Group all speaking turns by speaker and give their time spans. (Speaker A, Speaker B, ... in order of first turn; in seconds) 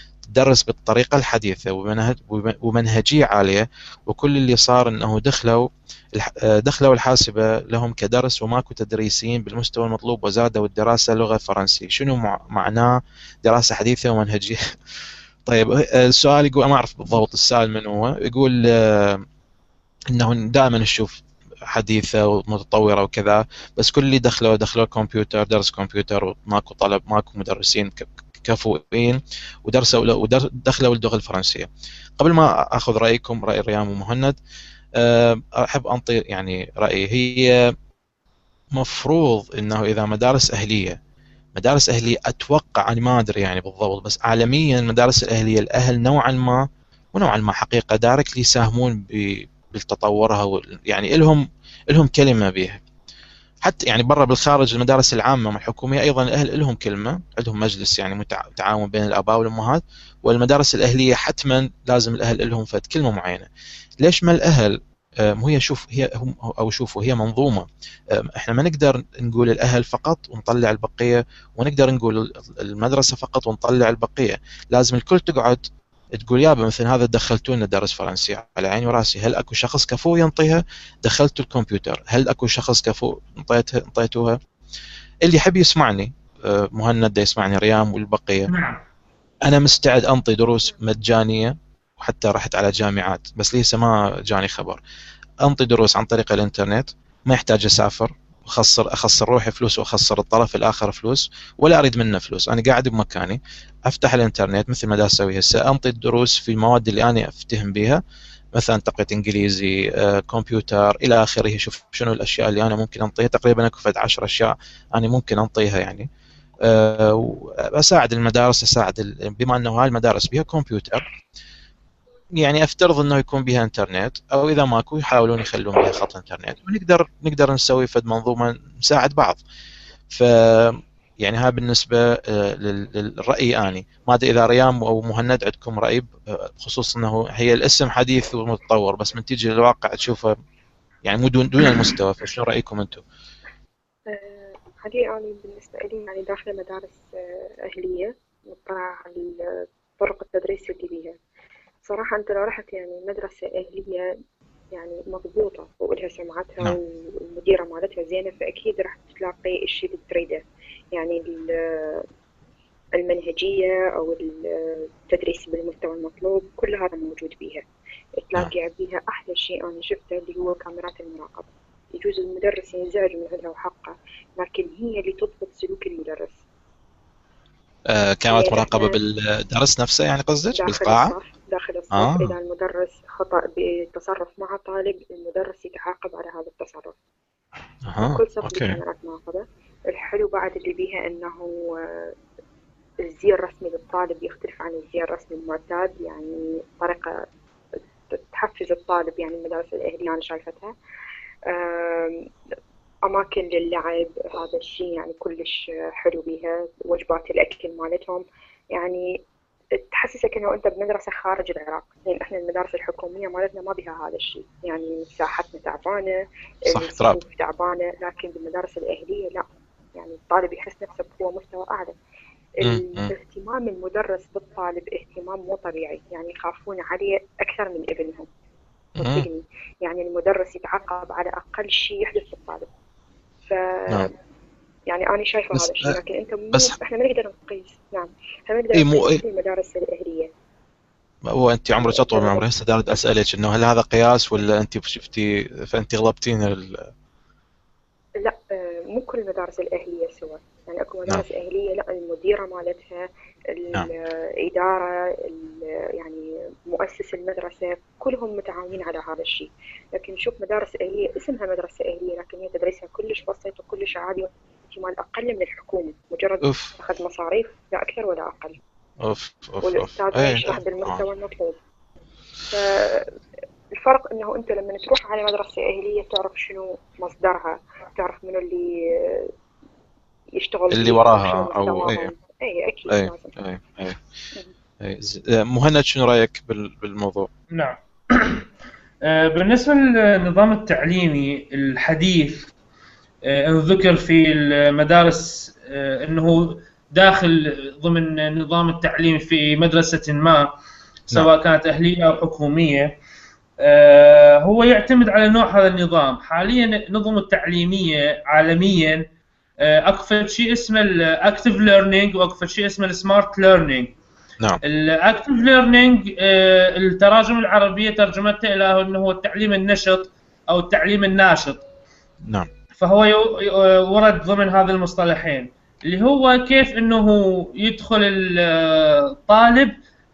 Speaker A: 0.3-14.6, 15.4-19.2, 20.1-31.7, 32.2-34.4, 35.0-37.7, 38.7-41.0, 41.5-52.8, 53.6-63.5, 64.0-84.4, 85.2-88.5, 89.4-94.8, 95.4-108.0, 108.5-116.1, 116.6-121.0, 122.4-129.4, 130.1-140.3, 141.0-143.0, 177.9-181.1, 181.9-182.3, 187.8-188.8, 216.7-217.2, 222.6-223.1, 229.0-229.3, 235.5-235.9, 238.7-239.2, 241.3-246.9, 266.4-266.7, 269.0-271.0, 280.7-282.1, 282.9-284.0, 284.8-287.3
Speaker B: 88.5-88.8, 287.5-288.4, 289.0-292.5, 293.2-300.5, 301.1-302.9, 303.6-309.0, 309.6-313.9, 314.6-321.6, 322.8-329.8
Speaker C: 144.1-151.1, 151.8-154.1, 154.7-162.0, 162.9-167.6, 168.2-176.4, 178.3-179.0, 180.5-187.0, 188.0-192.1, 193.0-197.2, 198.1-200.7, 201.5-202.2, 203.1-208.2, 208.7-209.1, 209.8-216.1, 216.7-219.4, 219.9-221.9, 222.6-228.3, 229.0-232.7, 233.4-234.1, 234.9-240.3, 241.7-242.4, 248.2-268.6, 269.6-271.6, 272.5-273.1, 273.7-279.3, 280.3-283.4